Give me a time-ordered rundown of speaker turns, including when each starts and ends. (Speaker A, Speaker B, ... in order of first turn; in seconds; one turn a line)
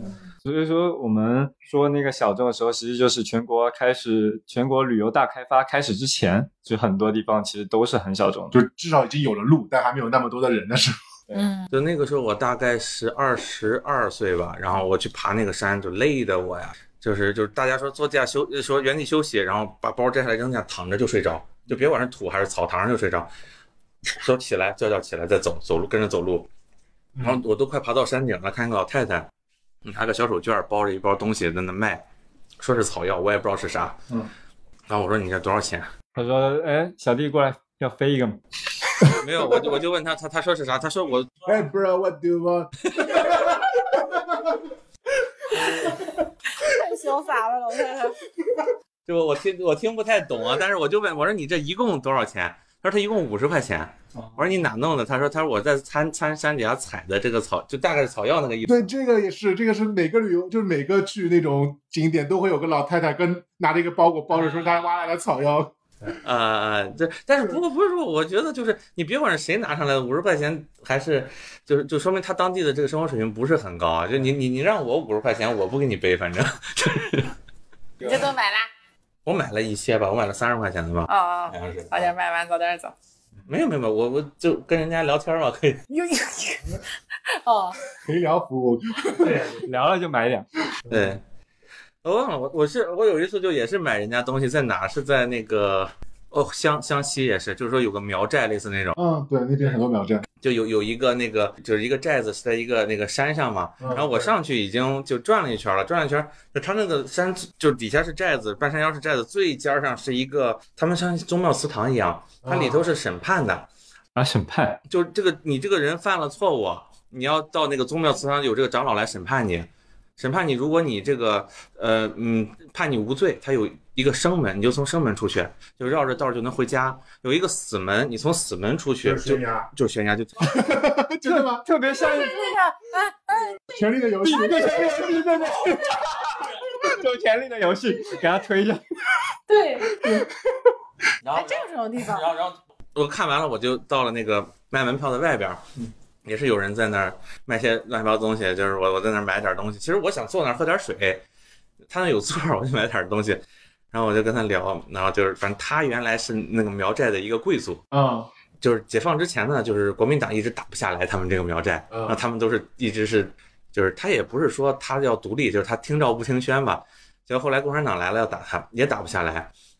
Speaker A: 0.4-8.6
Speaker B: 8.5-10.9
Speaker C: 11.3-11.7
Speaker D: 11.7-23.3
Speaker D: 24.1-26.5
Speaker D: 27.2-29.3
Speaker D: 29.8-32.0
Speaker D: 32.6-34.0
Speaker D: 34.9-35.9
Speaker A: 36.1-38.4
Speaker D: 39.0-41.5
Speaker B: 41.4-44.6
Speaker D: 42.9-43.4
Speaker D: 45.6-45.8
Speaker C: 46.5-48.2
Speaker D: 49.1-58.9
Speaker B: 58.6-65.7
Speaker D: 64.5-64.8
Speaker D: 66.2-77.3
Speaker C: 78.0-78.7
Speaker D: 79.2-81.9
Speaker C: 81.1-82.9
Speaker D: 83.5-85.8
Speaker C: 85.9-87.9
Speaker B: 88.0-89.5
Speaker A: 89.2-90.5
Speaker D: 90.9-91.2
Speaker D: 92.0-99.0
Speaker B: 99.0-100.2
Speaker D: 100.4-113.7
Speaker B: 103.8-104.3
Speaker B: 112.4-112.9
Speaker A: 114.1-114.8
Speaker D: 114.9-130.6
Speaker B: 129.0-129.7
Speaker B: 130.5-131.7
Speaker A: 131.2-132.4
Speaker C: 131.9-136.0
Speaker B: 133.7-135.5
Speaker A: 134.2-136.2
Speaker A: 136.8-138.8
Speaker C: 139.5-140.2
Speaker B: 139.9-140.7
Speaker D: 141.2-145.6
Speaker C: 141.3-142.3
Speaker D: 146.2-151.2
Speaker D: 151.9-157.8
Speaker B: 157.9-158.3
Speaker D: 158.6-169.5
Speaker B: 161.9-162.2